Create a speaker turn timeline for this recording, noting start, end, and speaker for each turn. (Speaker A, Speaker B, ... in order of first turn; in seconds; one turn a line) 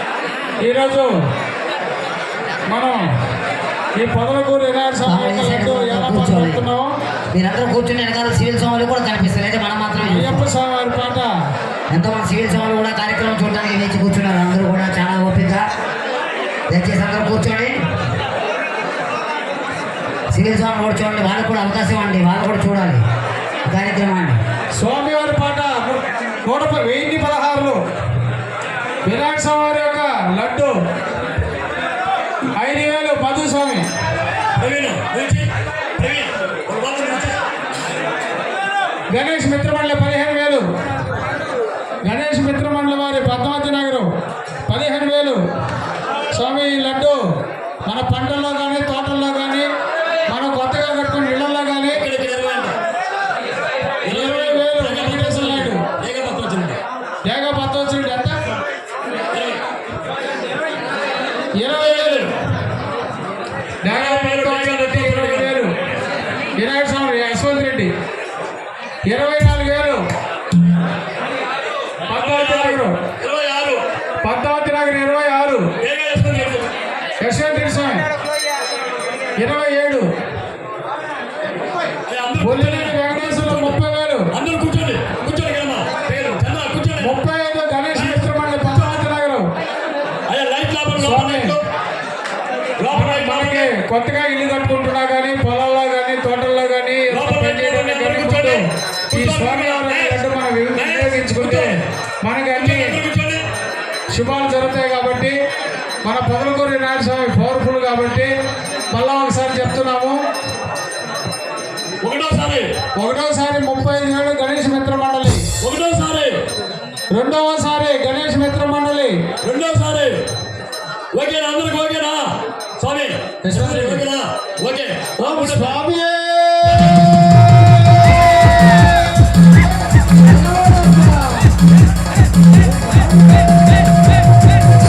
Speaker A: 0.6-1.2
Speaker A: 2.7-3.1
Speaker A: 4.0-6.9
Speaker B: 5.0-6.6
Speaker B: 7.3-10.5
Speaker A: 10.0-11.3
Speaker B: 11.9-15.6
Speaker B: 16.7-17.8
Speaker B: 20.3-23.0
Speaker B: 23.7-24.4
Speaker A: 24.8-27.8
Speaker A: 29.0-30.8
Speaker A: 32.5-33.9
Speaker C: 34.6-37.4
Speaker A: 39.1-40.6
Speaker A: 42.0-44.1
Speaker A: 44.6-45.4
Speaker A: 46.3-47.2
Speaker A: 47.8-49.7
Speaker A: 50.3-52.0
Speaker C: 51.9-52.8
Speaker C: 54.0-56.8
Speaker A: 54.0-55.8
Speaker A: 57.2-58.4
Speaker C: 59.3-59.6
Speaker A: 61.5-62.3
Speaker C: 62.0-62.3
Speaker A: 63.8-65.7
Speaker C: 63.9-65.6
Speaker A: 66.6-67.9
Speaker A: 69.0-70.0
Speaker A: 72.1-73.0
Speaker C: 72.1-73.8
Speaker A: 74.2-75.7
Speaker C: 75.8-76.7
Speaker A: 77.2-78.1
Speaker A: 79.4-80.1
Speaker C: 82.1-83.8
Speaker A: 82.4-84.3
Speaker C: 84.3-87.2
Speaker A: 87.0-89.5
Speaker C: 87.9-88.3
Speaker C: 90.3-91.6
Speaker A: 90.9-91.6
Speaker C: 92.8-93.7
Speaker A: 92.9-103.0
Speaker C: 97.1-101.8
Speaker C: 102.5-103.5
Speaker A: 104.1-105.4
Speaker A: 106.0-108.3
Speaker A: 108.9-110.2
Speaker C: 112.0-112.7
Speaker A: 113.0-115.5
Speaker C: 115.6-116.4
Speaker A: 117.1-119.2
Speaker C: 119.4-120.2
Speaker C: 121.1-125.8
Speaker A: 123.4-124.0
Speaker A: 125.2-128.2
Speaker B: 130.7-131.1